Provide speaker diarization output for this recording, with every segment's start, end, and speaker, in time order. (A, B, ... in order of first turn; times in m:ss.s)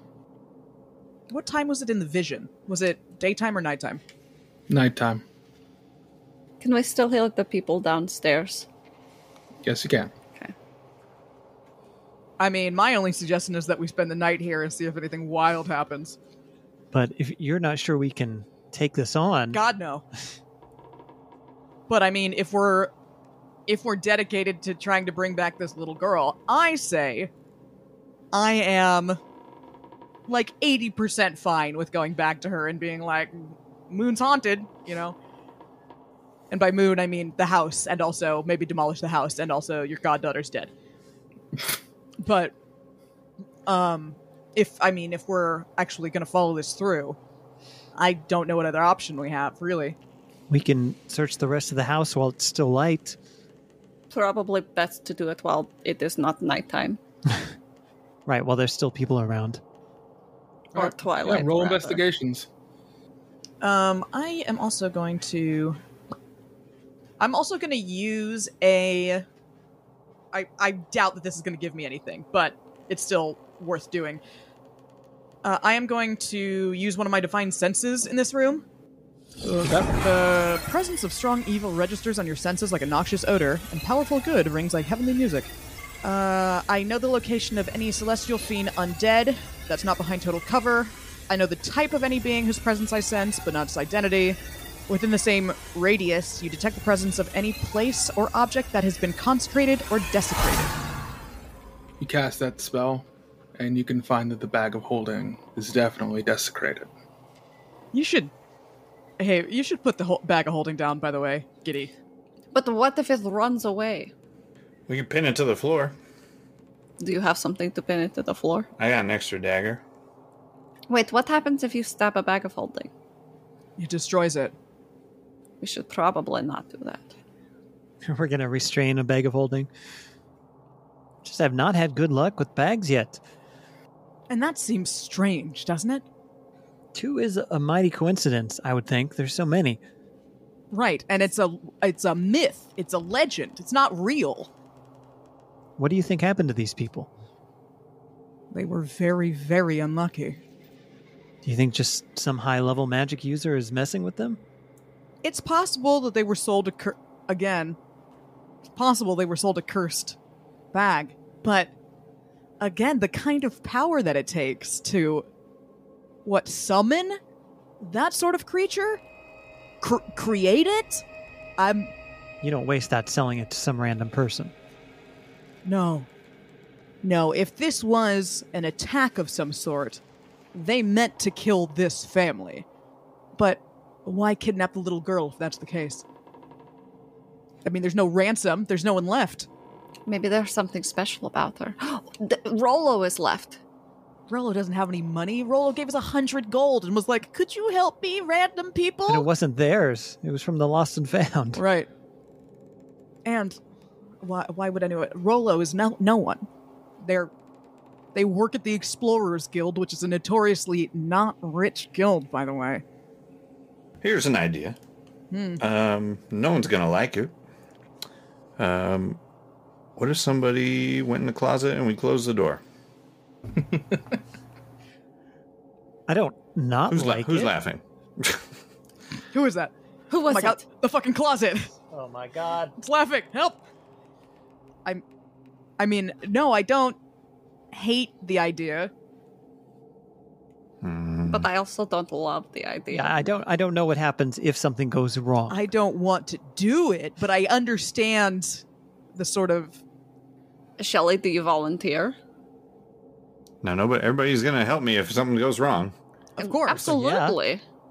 0:01.3-0:04.0 A
0:04.7-0:05.2 B
0:06.6-0:08.7 C
0:09.6-0:10.1 B
0:12.4-0:16.2 A
0:16.9-0:19.6 D
0:19.5-0:20.0 A
0:21.9-0:22.9 A
0:23.7-0:27.3 A
0:28.3-0:29.2 A
0:30.3-0:35.2 A
0:36.5-0:40.7 A
0:42.2-0:42.5 A
0:43.7-0:47.2 A
0:48.0-0:50.0 A
0:50.5-0:53.2 D
0:54.1-0:57.0 C
0:58.3-0:59.6 D
1:00.8-1:02.0 C
1:00.8-1:02.5 B
1:03.6-1:05.8 A
1:07.2-1:09.2 A
1:10.3-1:14.2 A
1:15.4-1:18.6 A
1:19.5-1:20.0 B
1:20.0-1:25.5 A
1:26.0-1:40.7 A
1:42.0-1:46.9 B
1:47.9-1:48.3 A
1:49.2-1:51.9 A
1:52.5-1:54.1 C
1:54.9-1:56.0 E
1:57.0-1:58.7 C
1:58.8-1:59.8 E
2:00.9-2:02.9 C
2:03.8-2:04.5 A
2:05.6-2:07.1 C
2:08.0-2:09.7 D
2:11.2-2:13.2 D
2:14.3-2:16.0 A
2:16.9-2:19.8 D
2:20.7-2:24.5 A
2:25.8-2:27.1 D
2:28.5-2:30.4 A
2:31.4-2:34.4 D
2:35.2-2:37.8 A
2:38.8-2:40.2 A
2:40.7-2:41.7 A
2:42.6-2:45.3 A
2:46.2-2:47.2 A
2:47.8-2:49.0 A
2:49.8-2:51.0 A
2:51.6-2:51.9 A
2:52.4-2:54.5 D
2:55.6-2:56.1 A
2:57.0-3:00.0 A
3:00.5-3:02.7 A
3:03.4-3:06.0 A
3:07.6-3:09.5 A
3:10.1-3:13.6 C
3:14.3-3:19.3 A
3:19.1-3:21.6 D
3:21.6-3:21.9 A
3:23.2-3:23.6 A
3:24.2-3:26.5 A
3:27.0-3:27.3 A
3:28.2-3:32.8 A
3:34.0-3:34.8 E
3:35.3-3:35.6 A
3:35.6-3:37.4 E
3:38.6-3:39.2 E
3:40.0-3:42.6 E
3:43.6-3:44.0 B
3:46.1-3:47.5 D
3:46.9-3:48.4 E
3:49.3-3:49.7 A
3:50.1-3:50.6 C
3:50.3-3:51.7 A
3:51.9-3:52.8 D
3:52.8-3:53.6 A
3:55.8-3:57.0 A
3:57.7-3:58.9 A
4:00.8-4:01.5 E
4:01.3-4:03.1 C
4:02.9-4:05.7 D
4:05.5-4:08.6 A
4:09.1-4:09.8 A
4:10.8-4:12.2 C
4:13.6-4:16.0 E
4:16.4-4:16.9 A
4:16.4-4:17.6 C
4:16.8-4:17.4 D